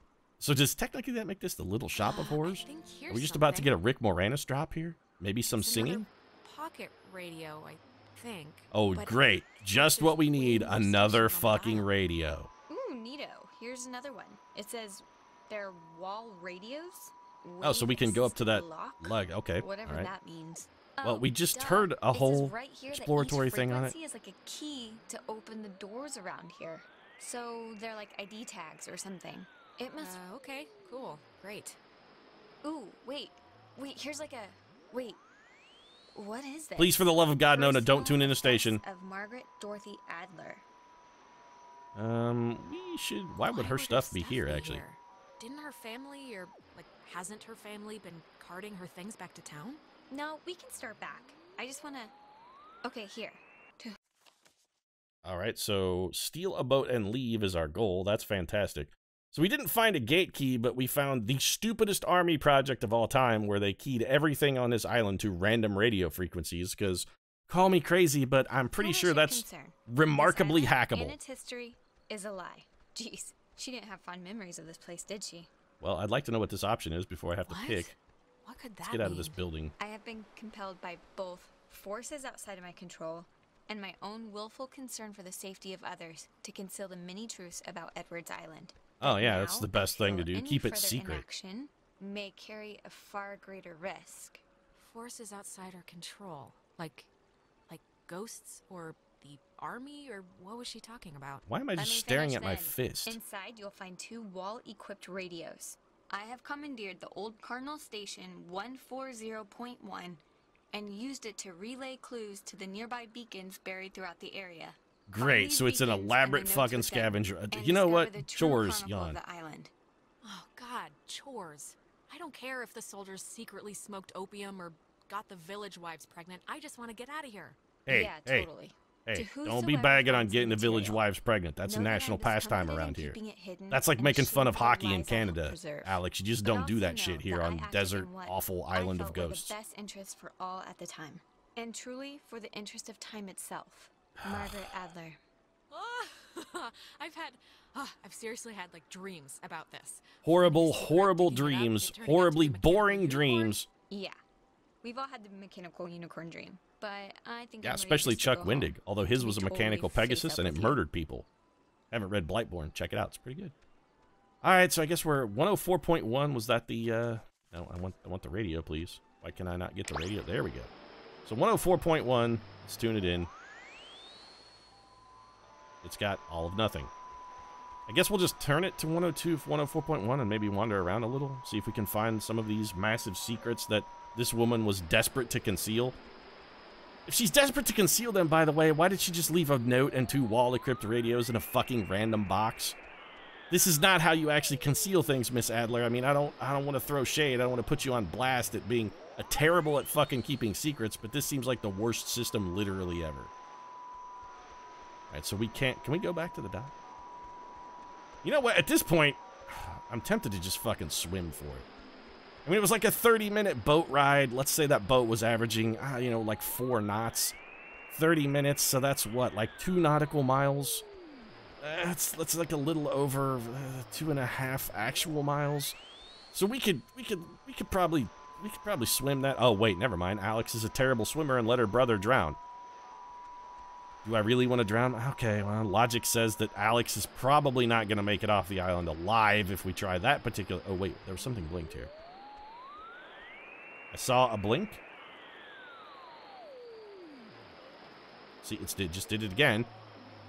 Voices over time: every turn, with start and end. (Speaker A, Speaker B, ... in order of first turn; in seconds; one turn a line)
Speaker A: 0.4-6.1
Speaker B: 1.9-3.7
Speaker B: 5.5-11.9
Speaker A: 8.7-12.5
Speaker C: 12.7-30.2
Speaker A: 17.6-20.1
Speaker A: 21.0-23.9
Speaker B: 30.0-31.8
Speaker C: 32.6-35.2
Speaker C: 36.1-40.6
Speaker A: 36.8-38.8
Speaker A: 41.9-44.8
Speaker B: 43.4-49.8
Speaker C: 50.1-52.1
Speaker C: 52.8-54.0
Speaker A: 55.2-71.2
Speaker C: 68.8-75.5
Speaker A: 75.8-77.9
Speaker B: 77.5-79.4
Speaker A: 78.8-79.7
Speaker C: 79.8-94.4
Speaker A: 89.0-91.2
Speaker B: 94.7-97.1
Speaker B: 97.7-101.4
Speaker A: 101.5-103.2
Speaker C: 101.7-119.7
Speaker A: 115.1-119.2
Speaker B: 120.2-127.6
Speaker A: 127.8-128.5
Speaker C: 127.9-131.0
Speaker A: 129.1-133.2
Speaker C: 131.7-145.2
Speaker A: 133.7-139.5
Speaker A: 144.2-144.7
Speaker B: 145.7-153.5
Speaker A: 150.2-153.7
Speaker C: 153.9-154.2
Speaker C: 154.8-160.8
Speaker A: 157.6-161.3
Speaker A: 161.9-163.5
Speaker A: 164.4-170.7
Speaker A: 171.2-173.3
Speaker A: 175.8-176.9
Speaker A: 177.9-186.0
Speaker A: 187.1-192.8
Speaker A: 193.5-203.3
Speaker A: 205.1-206.7
Speaker A: 208.2-211.6
Speaker A: 212.4-217.3
Speaker A: 217.9-220.8
Speaker A: 221.6-225.8
Speaker A: 226.3-232.4
Speaker A: 234.0-241.9
Speaker A: 243.9-244.8
Speaker A: 248.4-249.7